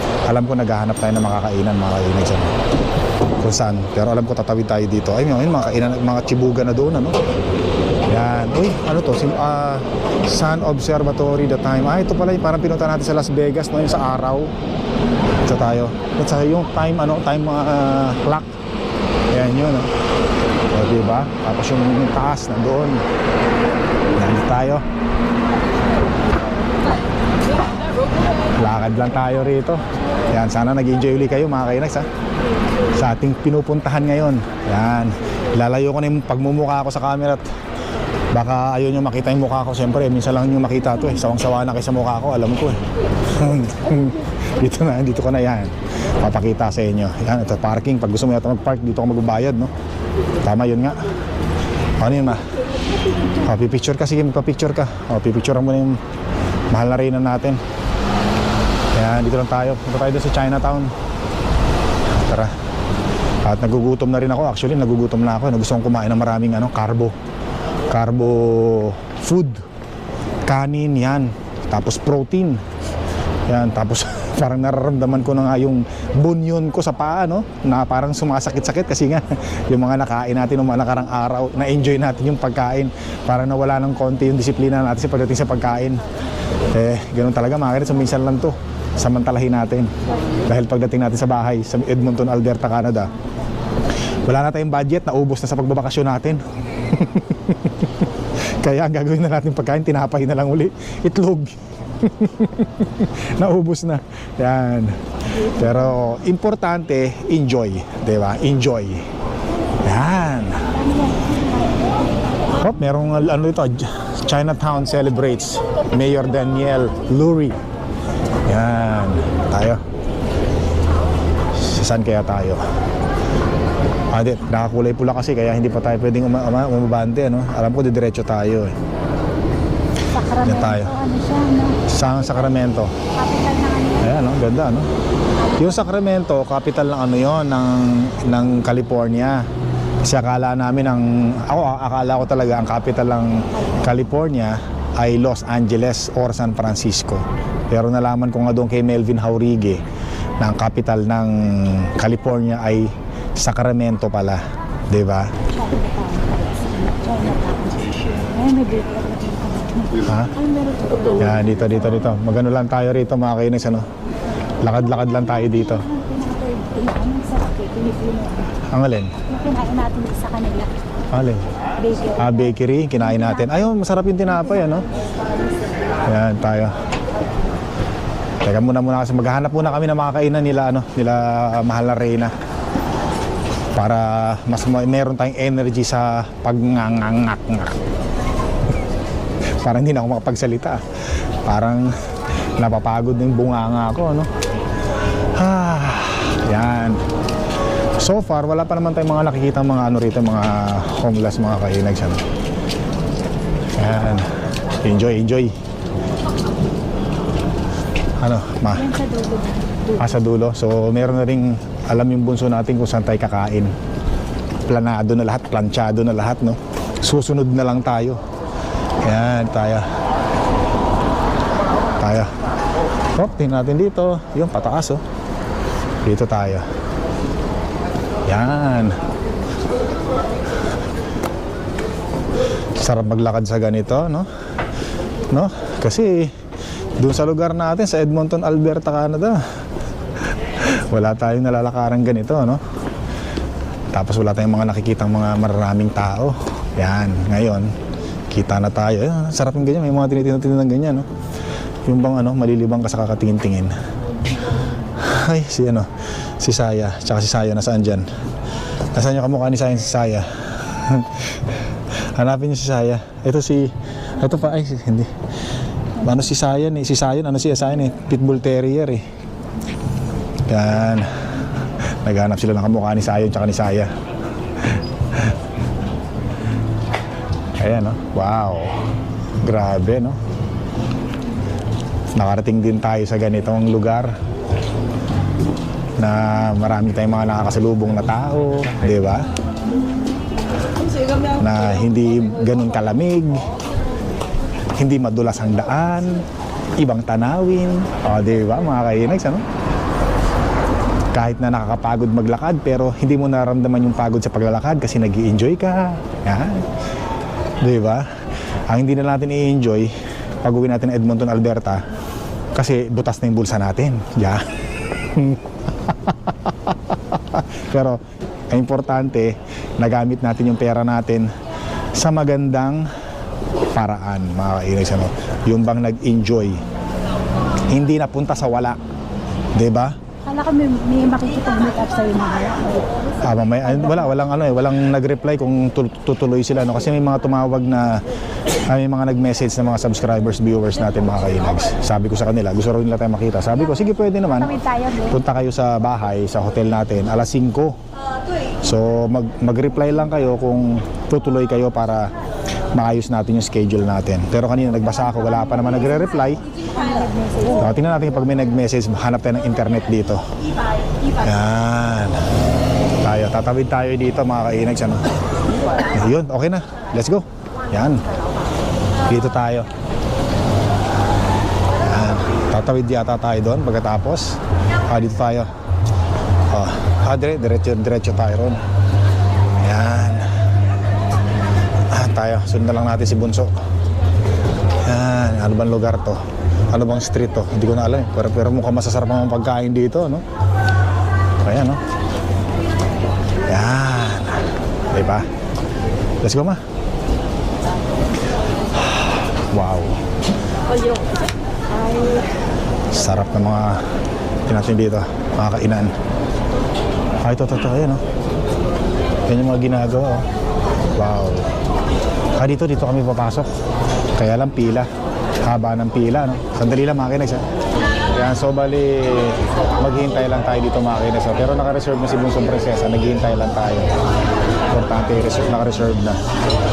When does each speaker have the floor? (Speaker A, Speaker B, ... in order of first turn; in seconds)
Speaker A: 0.2-2.5, 3.4-7.2, 8.1-14.5, 15.5-18.5, 19.3-19.9, 20.7-23.0, 24.1-24.8, 28.6-32.1, 32.9-37.4, 38.3-49.7, 50.4-51.1, 52.0-52.4, 53.4-56.0, 56.7-57.6, 58.9-60.9, 62.2-62.5, 63.4-67.1, 67.9-69.6, 70.5-72.6, 73.5-86.0, 86.7-89.9, 90.5-93.1, 94.2-97.8, 98.6-109.0, 109.8-110.7, 112.6-117.6, 118.5-119.8, 121.5-122.6, 124.1-128.7, 130.4-130.9, 131.9-132.9, 134.0-134.9, 135.6-139.4, 140.0-149.8, 150.4-155.3, 160.1-160.3, 161.2-163.8, 164.6-165.8, 168.7-169.1, 171.1-171.4, 172.2-174.8, 176.0-176.7, 178.4-182.3, 183.8-187.8, 189.6-190.8, 191.4-191.9, 192.6-194.3, 195.3-197.0, 198.0-202.2, 203.8-204.3, 204.8-205.5, 208.2-208.9, 210.0-213.7, 214.7-218.2, 219.0-219.8, 222.0-222.3, 223.2-225.0, 226.0-226.7, 228.3-229.0, 232.8-234.3, 235.3-236.3, 237.0-239.4, 240.6-242.6, 243.9-247.7, 248.3-251.1, 251.8-253.7, 254.9-258.1, 258.9-261.3, 262.1-265.1, 266.0-269.0, 270.5-271.1, 272.0-273.9, 277.6-278.8, 279.4-280.2, 282.1-284.1, 286.0-289.3, 291.4-293.5, 294.8-296.2, 296.8-299.4, 301.1-306.6, 307.6-308.1, 308.7-311.8, 312.5-314.4, 315.1-321.3, 321.9-322.9, 323.7-326.6, 327.7-328.8, 329.5-329.9, 333.2-338.0, 338.7-344.5, 345.1-347.8, 348.6-352.1, 352.7-356.4, 357.6-360.2, 361.2-362.2, 363.0-365.0, 365.9-368.0, 369.1-369.7, 371.8-375.5, 376.5-378.6, 379.6-380.3, 381.9-383.5, 384.8-390.2, 391.4-391.8, 393.5-395.3, 396.2-396.6, 398.8-400.0, 402.9-403.8, 404.5-405.9, 407.2-408.0, 409.3-410.2, 410.9-411.5, 412.3-413.5, 414.1-414.9, 415.4-417.4, 418.1-423.9, 424.7-426.2
Speaker B: 110.7-112.1, 130.1-131.8, 133.1-134.2, 155.5-161.7, 164.9-168.6, 169.2-170.7, 171.8-173.8, 174.4-174.9, 208.7-210.2, 330.2-333.2, 344.4-345.2, 356.4-357.7